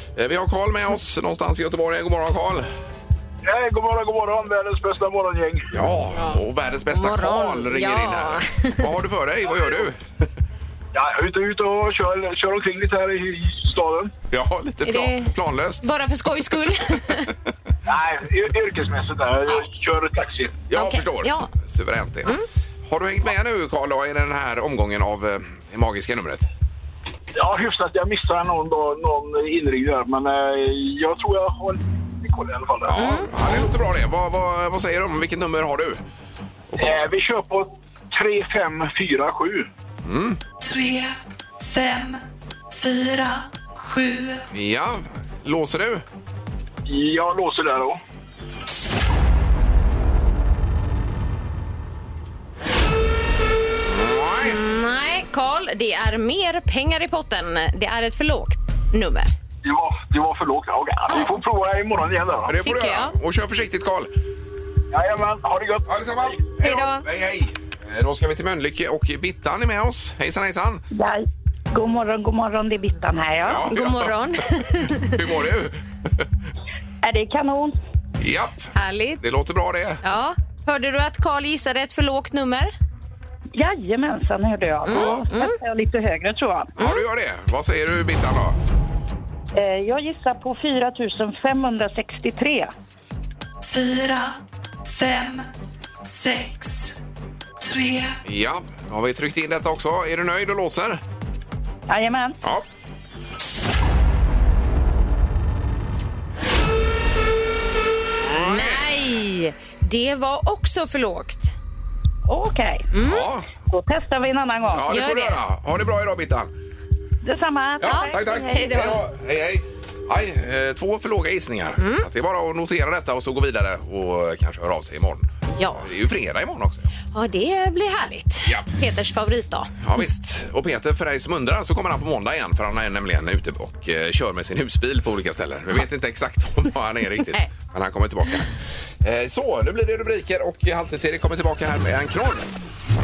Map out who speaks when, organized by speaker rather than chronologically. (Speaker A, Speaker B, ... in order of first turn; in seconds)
Speaker A: 0.2-2.7, 5.7-10.0, 14.3-15.9, 20.7-22.4, 22.9-26.5, 32.9-36.0, 36.7-37.0, 40.0-40.4, 44.5-46.0, 53.9-54.6, 62.5-64.1, 65.9-70.8, 73.4-74.3, 75.0-76.2, 78.2-80.0, 84.9-85.2, 86.8-88.6, 98.2-101.0, 108.3-108.9, 113.0-113.5, 114.7-116.5, 117.8-126.9, 129.8-142.5
Speaker B: 3.4-5.7, 10.9-14.1, 17.9-20.6, 27.4-33.2, 36.8-39.7, 46.9-48.0, 59.6-62.5, 64.9-66.3
Speaker C: 6.2-8.9, 14.8-17.3, 20.7-21.5, 33.0-33.6, 54.4-59.3, 62.6-63.1, 66.6-67.0, 73.7-75.2, 78.7-79.2, 80.0-82.7, 84.8-85.6, 86.8-87.0, 108.4-111.5, 112.9-113.3, 114.9-115.4, 117.8-119.0, 121.8-122.1, 125.5-125.9, 127.1-129.7
Speaker D: 40.6-44.4, 93.6-95.5, 96.0-97.0, 97.6-98.2
Speaker E: 70.9-73.7, 77.0-77.8, 83.5-86.7, 89.5-92.7, 101.9-102.4, 112.3-112.9, 113.7-114.9, 117.2-119.0